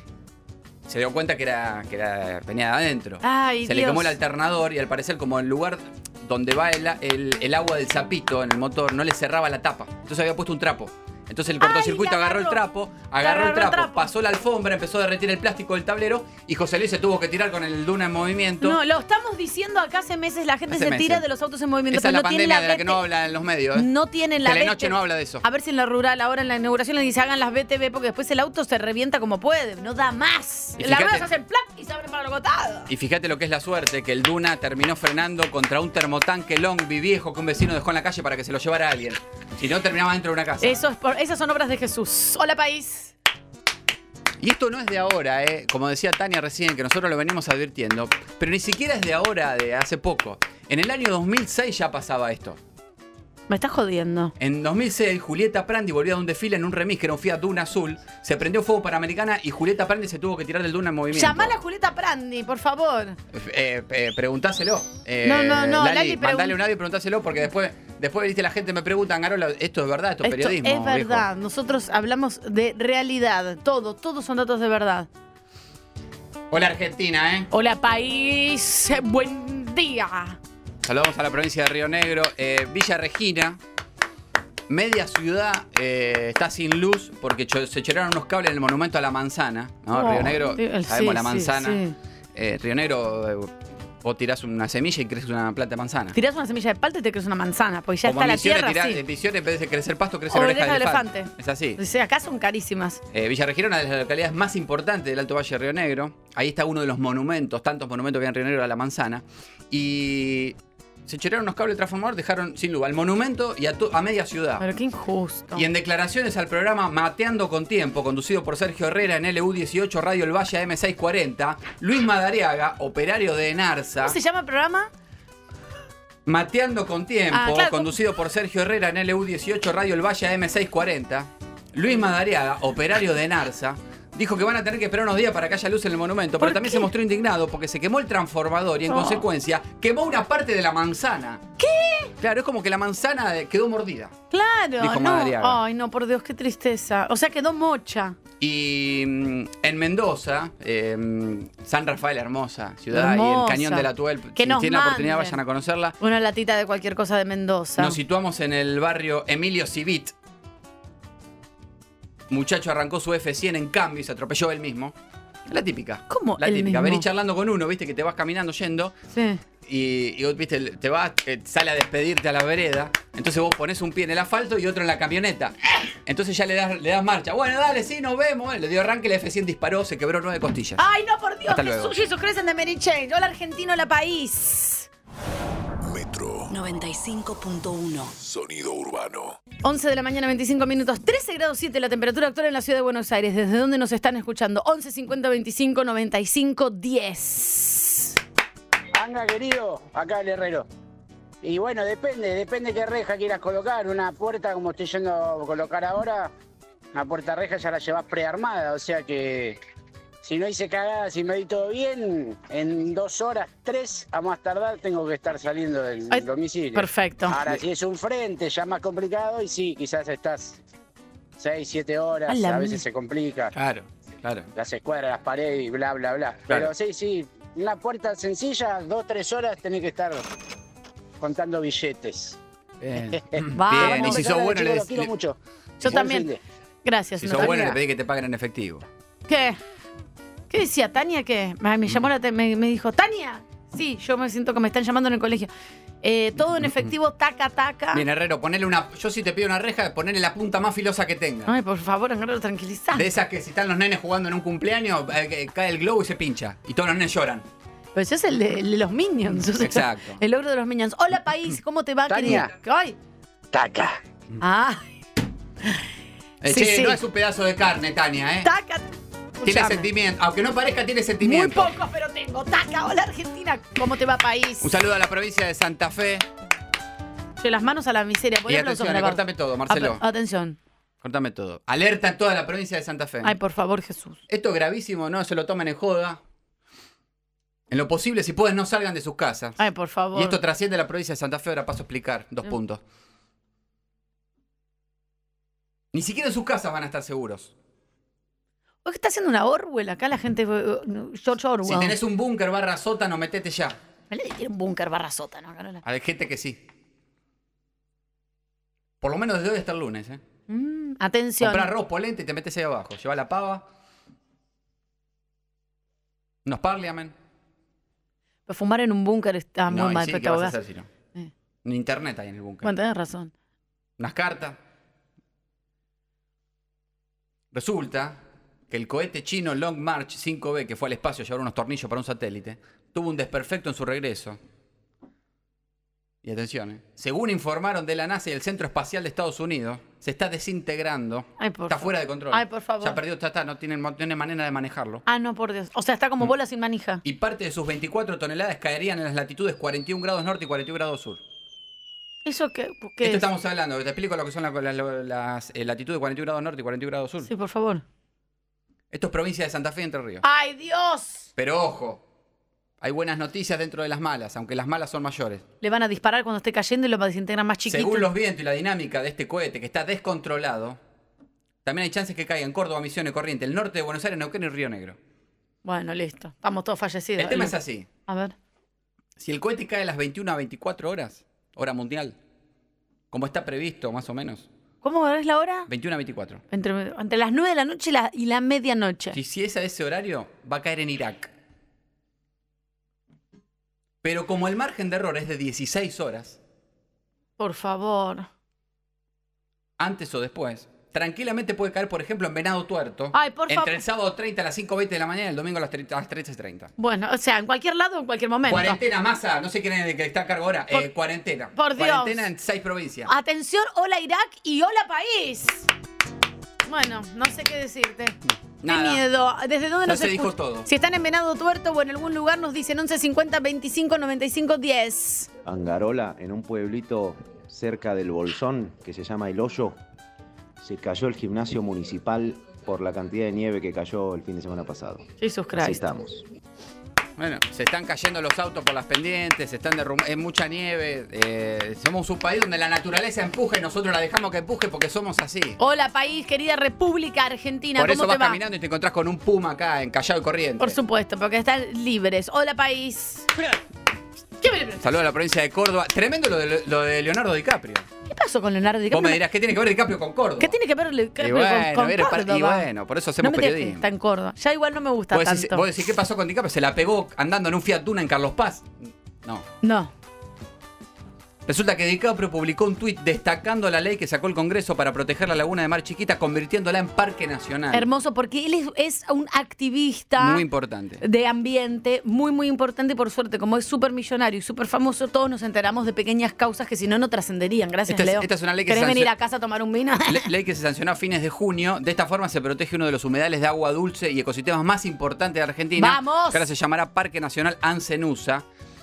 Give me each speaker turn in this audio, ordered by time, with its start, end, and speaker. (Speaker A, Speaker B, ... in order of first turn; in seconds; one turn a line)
Speaker A: 0.9-18.8
Speaker B: 3.2-4.2
Speaker B: 11.6-12.6
Speaker B: 13.2-14.1
Speaker B: 18.6-23.0
Speaker A: 20.7-21.2
Speaker A: 21.9-23.9
Speaker B: 23.7-32.9
Speaker A: 24.4-25.4
Speaker A: 30.8-31.2
Speaker A: 32.9-40.8
Speaker B: 40.6-43.1
Speaker A: 44.4-52.6
Speaker B: 53.5-54.3
Speaker A: 54.4-61.5
Speaker B: 61.1-63.2
Speaker A: 63.3-71.3
Speaker B: 65.2-66.6
Speaker B: 70.2-75.1
Speaker A: 76.5-77.5
Speaker B: 77.5-80.4
Speaker A: 80.8-83.6
Speaker A: 84.7-91.8
Speaker B: 89.9-91.9
Speaker A: 92.3-93.5
Speaker A: 94.0-96.2
Speaker B: 96.1-99.0
Speaker A: 98.0-101.8
Speaker B: 100.3-103.0
Speaker A: 103.1-110.5
Speaker A: 111.1-114.7
Speaker B: 114.6-115.6
Speaker A: 115.5-124.2
Speaker B: 124.0-124.9
Speaker A: 126.2-141.4
Speaker B: 127.3-127.9
Speaker B: 136.4-136.9
Speaker B: 138.9-139.2
Speaker B: 141.6-142.1
Speaker A: 142.2-144.1
Speaker B: 144.3-148.2
Speaker A: 144.8-145.6
Speaker A: 148.4-155.9
Speaker B: 152.9-155.4
Speaker B: 156.0-158.0
Speaker A: 157.8-160.1
Speaker A: 162.3-164.9
Speaker A: 165.5-168.9
Speaker B: 166.1-167.1
Speaker B: 169.1-169.4
Speaker A: 169.6-180.8
Speaker B: 180.8-184.9
Speaker A: 181.5-181.9
Speaker C: 185.8-186.5
Speaker B: 186.5-188.1
Speaker C: 188.1-189.4
Speaker B: 189.6-198.2
Speaker D: 198.9-200.7
Speaker D: 201.4-206.3
Speaker D: 206.9-209.6
Speaker D: 210.2-220.6
Speaker B: 216.1-217.5
Speaker D: 221.4-223.5
Speaker B: 222.3-222.8
Speaker A: 223.5-224.5
Speaker D: 224.6-230.2
Speaker D: 231.2-232.4
Speaker A: 232.8-235.1
Speaker D: 233.1-236.4
Speaker B: 233.5-234.2
Speaker B: 235.8-236.3
Speaker B: 236.8-237.8
Speaker A: 237.2-238.8
Speaker D: 237.4-237.6
Speaker B: 239.3-239.6
Speaker B: 240.5-245.5
Speaker B: 246.0-248.0
Speaker A: 246.6-246.9
Speaker A: 247.9-251.5
Speaker B: 251.4-253.1
Speaker A: 252.9-257.4
Speaker B: 257.9-263.0
Speaker A: 259.5-260.2
Speaker D: 262.1-262.5
Speaker D: 263.5-264.0
Speaker B: 264.4-264.9
Speaker A: 266.4-268.5
Speaker B: 266.4-267.0
Speaker B: 268.4-269.9
Speaker A: 269.4-271.7
Speaker B: 271.2-274.7
Speaker A: 274.6-276.2
Speaker B: 277.4-280.6
Speaker A: 278.5-280.0
Speaker A: 281.0-283.3
Speaker B: 283.2-284.2
Speaker A: 284.3-286.2
Speaker A: 287.7-289.6
Speaker B: 289.6-290.4
Speaker A: 290.1-292.8
Speaker A: 295.9-297.5
Speaker B: 298.8-301.9
Speaker A: 301.6-303.8
Speaker B: 304.1-305.8
Speaker A: 305.8-306.6
Speaker A: 309.0-310.2
Speaker B: 310.5-311.7
Speaker A: 311.4-313.6
Speaker A: 316.4-317.1
Speaker B: 318.5-320.6
Speaker A: 319.7-320.9
Speaker A: 321.6-322.7
Speaker B: 322.6-323.3
Speaker A: 324.0-324.6
Speaker A: 327.5-328.2
Speaker A: 328.7-334.4
Speaker A: 336.2-345.0
Speaker B: 341.4-343.0
Speaker B: 345.1-347.0
Speaker A: 347.0-351.2
Speaker B: 352.2-353.2
Speaker A: 353.0-357.3
Speaker B: 357.2-357.8
Speaker A: 358.9-360.2
Speaker B: 360.2-361.3
Speaker A: 361.4-362.0
Speaker A: 362.8-365.4
Speaker B: 365.6-368.1
Speaker A: 367.7-370.8
Speaker A: 371.6-375.0
Speaker B: 375.6-377.6
Speaker A: 377.2-377.9
Speaker B: 378.1-378.3
Speaker A: 379.2-382.1
Speaker A: 383.1-384.5
Speaker B: 384.8-385.7
Speaker A: 385.7-386.4
Speaker B: 386.5-389.2
Speaker A: 389.1-391.3
Speaker A: 394.0-396.4
Speaker B: 397.4-398.3
Speaker A: 399.8-406.7
Speaker B: 403.1-403.8
Speaker B: 406.8-408.8
Speaker A: 408.5-413.1
Speaker B: 411.5-412.3
Speaker B: 413.1-415.7
Speaker B: 416.7-425.3
Speaker A: 418.6-419.0
Speaker A: 419.8-420.7
Speaker E: 425.4-429.8
Speaker E: 430.6-435.1
Speaker B: 435.2-435.8
Speaker E: 435.6-436.2
Speaker A: 437.2-445.6
Speaker B: 445.6-448.4
Speaker A: 447.8-450.8
Speaker B: 450.6-453.3
Speaker B: 454.4-454.8
Speaker A: 454.8-457.9
Speaker B: 458.1-459.2
Speaker A: 458.9-460.5
Speaker B: 460.4-462.7
Speaker A: 461.2-463.8
Speaker B: 463.2-465.6
Speaker A: 465.1-469.4
Speaker B: 469.6-469.9
Speaker A: 471.5-477.9
Speaker B: 477.7-480.4
Speaker A: 480.2-481.0
Speaker B: 481.0-490.3
Speaker A: 487.9-489.1
Speaker A: 490.1-498.4
Speaker B: 495.8-496.4